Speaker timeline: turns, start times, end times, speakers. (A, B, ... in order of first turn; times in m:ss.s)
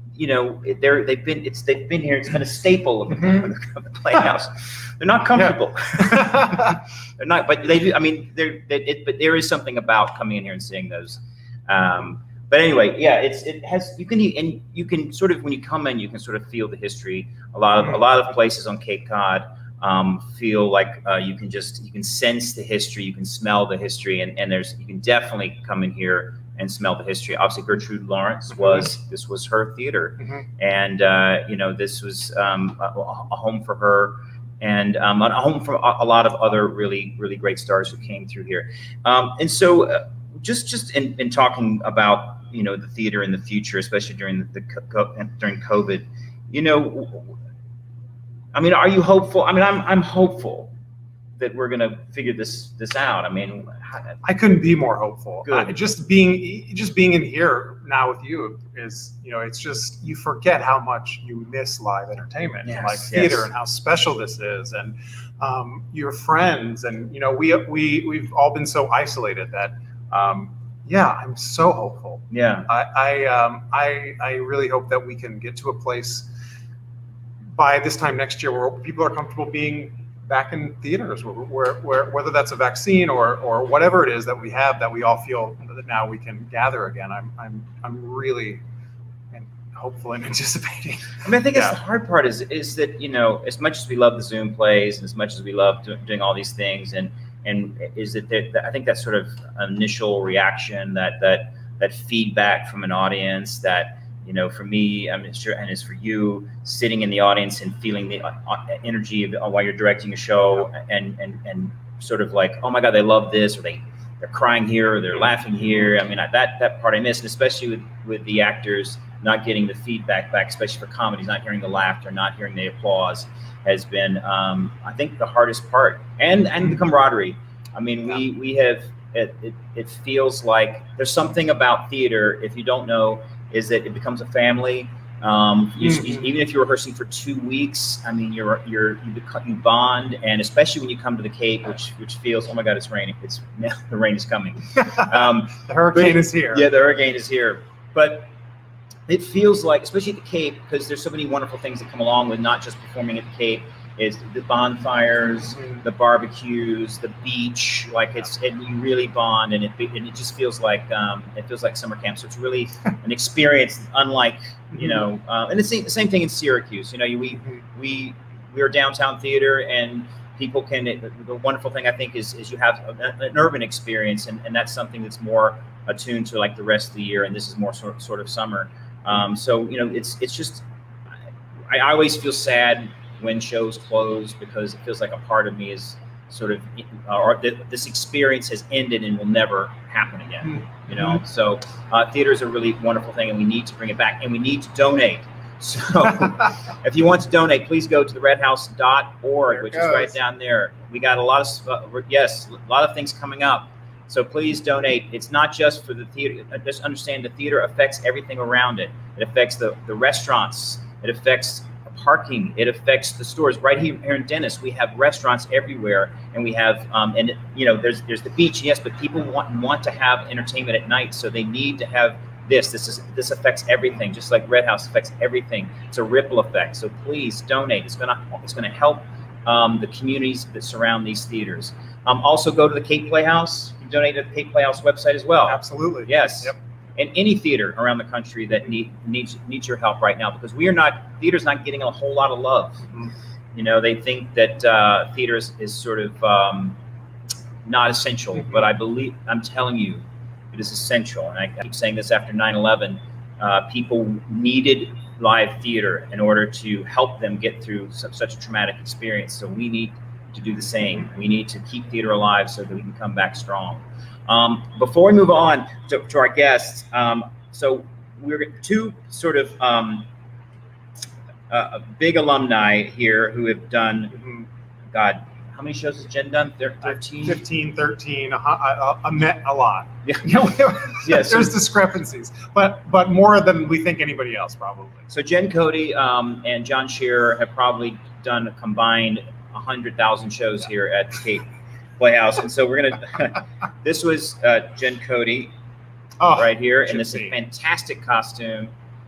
0:00.2-0:47.4 A
0:05.4-0:06.7 B
0:30.2-0:30.4 B
0:48.5-0:50.7 A
0:51.4-0:54.2 A
0:54.2-1:16.3 B
0:55.4-0:55.8 A
1:02.6-1:03.5 A
1:12.3-1:12.7 A
1:17.5-1:28.6 B
1:29.3-1:31.8 B
1:31.2-2:28.3 A
2:15.8-2:16.3 B
2:24.8-2:26.7 B
2:29.1-3:00.6 A
2:35.6-2:35.8 B
3:01.7-4:02.9 A
3:10.9-3:11.2 B
3:19.5-3:20.2 B
3:55.5-3:56.6 B
4:03.5-4:06.8 A
4:07.6-4:30.1 A
4:31.5-4:34.2 A
4:34.1-4:34.5 B
4:34.9-4:37.4 A
4:36.8-4:45.1 B
4:40.0-4:41.6 A
4:45.1-4:51.5 A
4:52.0-4:55.5 A
4:56.2-4:57.4 B
4:56.3-4:58.7 A